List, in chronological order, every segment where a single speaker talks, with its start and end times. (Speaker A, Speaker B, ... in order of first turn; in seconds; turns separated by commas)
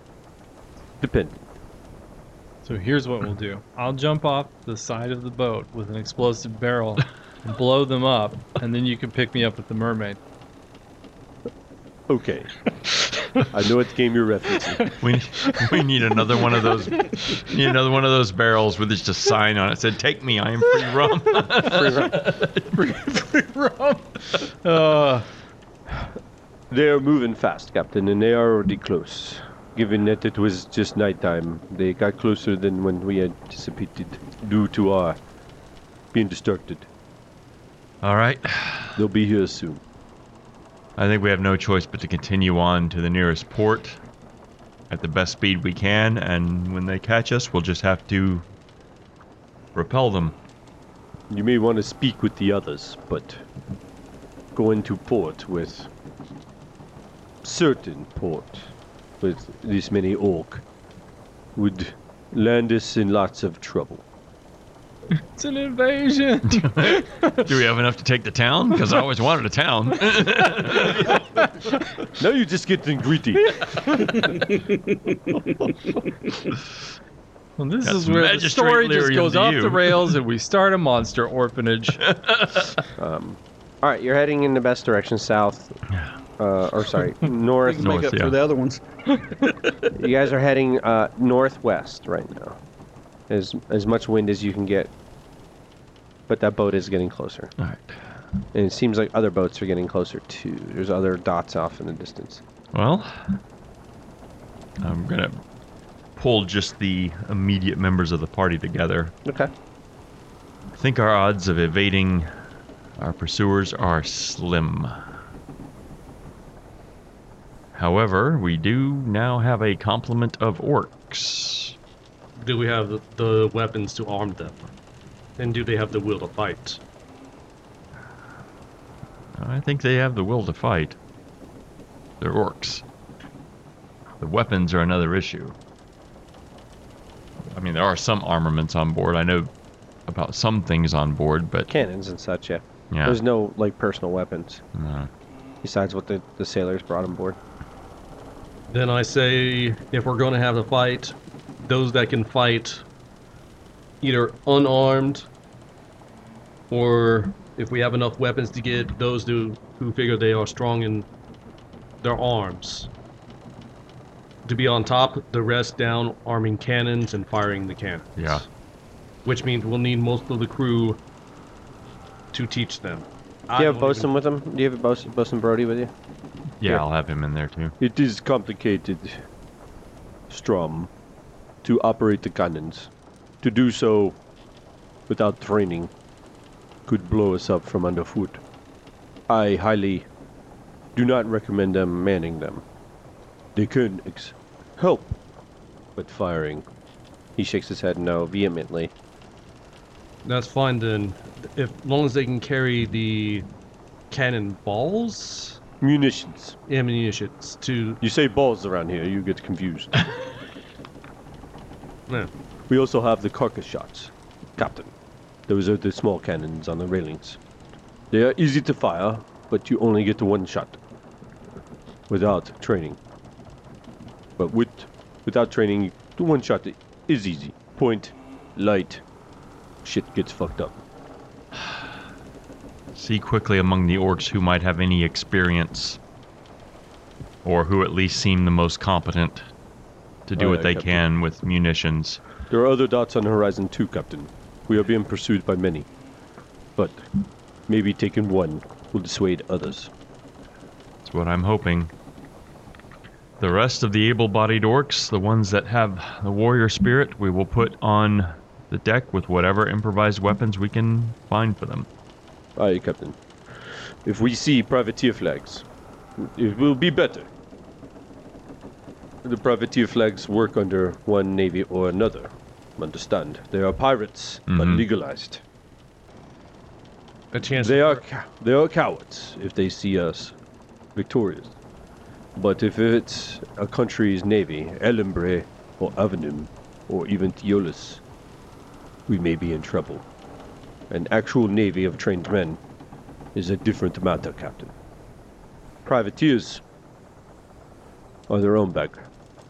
Speaker A: 1.0-1.4, Speaker B: 2.6-10.2, Speaker A: 12.1-12.5, Speaker A: 13.5-14.9, Speaker C: 15.0-22.4, Speaker B: 15.4-15.7, Speaker B: 16.2-17.4, Speaker B: 21.1-21.4, Speaker A: 21.6-22.3, Speaker B: 22.4-25.3, Speaker A: 26.7-35.2, Speaker A: 36.1-36.9, Speaker C: 38.0-39.0, Speaker A: 39.0-39.8, Speaker C: 41.0-44.0, Speaker C: 44.9-48.5, Speaker C: 49.8-50.4, Speaker A: 51.3-53.4, Speaker A: 54.5-55.9, Speaker A: 57.4-60.6, Speaker A: 61.6-64.0, Speaker B: 65.1-67.5, Speaker C: 66.5-71.2, Speaker B: 70.0-71.7, Speaker A: 72.2-73.6, Speaker C: 73.6-74.3, Speaker B: 73.7-74.3, Speaker D: 74.2-75.4, Speaker B: 77.6-82.0, Speaker C: 77.8-80.2, Speaker C: 82.1-82.8, Speaker A: 83.0-85.8, Speaker A: 86.4-88.0, Speaker D: 87.6-88.8, Speaker C: 87.8-88.4, Speaker A: 89.9-92.6, Speaker A: 93.3-94.9, Speaker A: 96.3-97.5, Speaker C: 97.6-97.9, Speaker A: 98.5-102.4, Speaker C: 102.7-103.4, Speaker C: 104.8-105.4, Speaker C: 106.2-109.2, Speaker A: 109.2-109.5, Speaker C: 110.8-112.3, Speaker C: 113.0-115.0, Speaker C: 117.7-121.8, Speaker E: 122.4-124.7, Speaker E: 125.4-126.8, Speaker C: 129.4-131.0, Speaker C: 132.2-132.8, Speaker C: 134.2-135.6, Speaker C: 137.5-139.5, Speaker C: 140.1-141.7, Speaker A: 141.7-144.6, Speaker C: 142.9-143.2, Speaker C: 144.8-145.1, Speaker A: 145.6-147.4, Speaker E: 148.7-152.8, Speaker E: 154.0-155.3, Speaker E: 156.7-161.1, Speaker E: 162.0-162.9, Speaker E: 164.4-168.4, Speaker C: 168.2-168.4, Speaker E: 169.2-171.0, Speaker E: 172.3-174.1, Speaker A: 173.5-175.9, Speaker C: 176.6-177.8, Speaker A: 177.8-179.2, Speaker A: 180.3-180.9, Speaker A: 181.6-182.9, Speaker A: 183.4-184.2, Speaker A: 185.1-185.9, Speaker A: 186.9-188.4, Speaker A: 189.3-190.1, Speaker A: 191.0-192.6, Speaker A: 193.6-195.2, Speaker A: 196.0-196.7, Speaker A: 197.4-198.9, Speaker E: 200.2-203.5, Speaker E: 204.1-205.6, Speaker A: 205.8-206.6, Speaker E: 206.7-208.0, Speaker A: 208.0-210.1, Speaker A: 212.7-214.9, Speaker A: 215.5-217.4, Speaker A: 218.1-220.8, Speaker A: 222.1-223.0, Speaker A: 224.4-229.0, Speaker A: 229.8-230.8, Speaker C: 232.9-236.0, Speaker C: 237.4-239.5, Speaker C: 240.3-242.2, Speaker A: 240.4-241.0, Speaker A: 242.5-245.9, Speaker A: 246.8-247.1, Speaker A: 247.7-249.9, Speaker C: 251.0-251.9, Speaker C: 253.4-261.9, Speaker A: 262.6-263.2, Speaker A: 264.1-265.7, Speaker A: 266.2-267.3, Speaker A: 269.2-275.4, Speaker C: 274.5-274.8, Speaker E: 277.3-278.0, Speaker A: 277.6-280.4, Speaker A: 281.0-281.5, Speaker A: 282.4-288.0, Speaker A: 289.1-290.1, Speaker A: 290.9-292.6, Speaker A: 293.4-294.7, Speaker A: 295.9-296.6, Speaker A: 298.3-299.0